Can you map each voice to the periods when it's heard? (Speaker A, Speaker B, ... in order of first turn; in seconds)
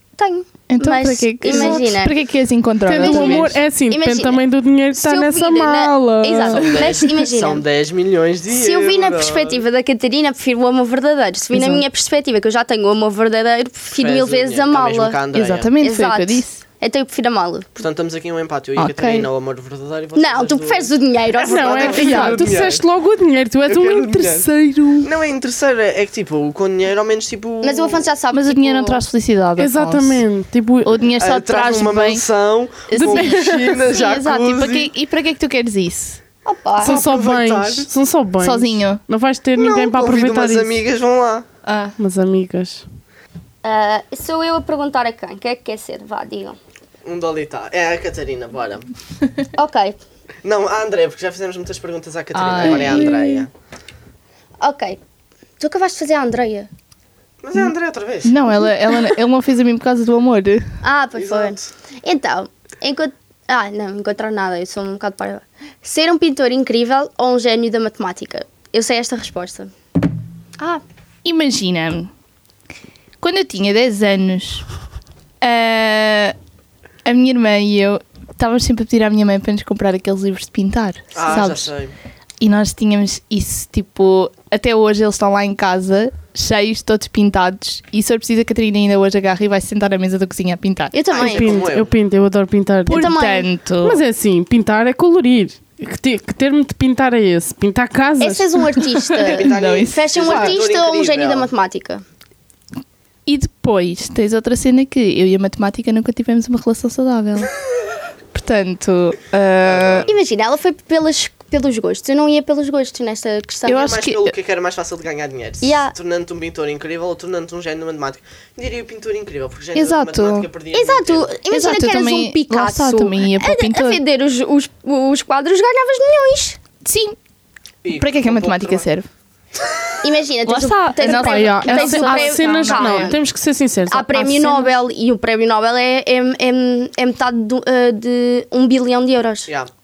Speaker A: 0.2-2.1, 2.9-7.6, 8.5-15.2, 15.8-17.9, 20.1-22.4, 27.6-29.0, 36.4-37.0, 43.6-46.6, 49.5-50.0, 52.6-53.1, 54.6-55.0, 55.6-56.7, 60.8-69.7, 90.9-91.7, 92.9-93.5, 98.2-102.0, 110.0-113.8, 115.6-115.9, 120.7-126.6, 130.0-133.2, 133.9-139.5
Speaker B: 0.7-3.5, 11.5-11.8, 15.3-16.6, 18.8-19.3, 28.3-30.3, 30.8-32.2, 32.9-36.2, 38.4-39.0, 41.6-42.0, 52.3-53.2, 58.2-60.6, 71.2-72.1, 73.2-74.6, 75.4-76.3, 77.0-81.7, 82.4-90.9, 92.8-94.0, 99.0-100.0, 103.2-107.5, 108.3-110.1, 113.7-114.3, 119.7-120.5, 121.5-124.0, 126.8-127.2, 127.9-129.1, 130.4-133.1
Speaker C: 1.5-1.8, 2.9-6.7, 21.4-25.1, 29.6-31.0, 33.0-33.4, 36.8-40.8, 42.0-42.8, 91.2-93.1, 93.8-98.6, 131.0-134.7
Speaker D: 6.5-9.6, 14.0-15.7, 17.8-22.8, 23.6-24.5, 25.0-28.1, 31.2-34.9, 36.8-37.9, 39.6-41.5, 47.0-48.9, 50.4-53.5, 57.4-58.7, 61.1-61.7, 81.1-81.9, 91.1-92.0, 99.2-101.5, 109.6-110.2, 113.7-121.3, 127.8-128.8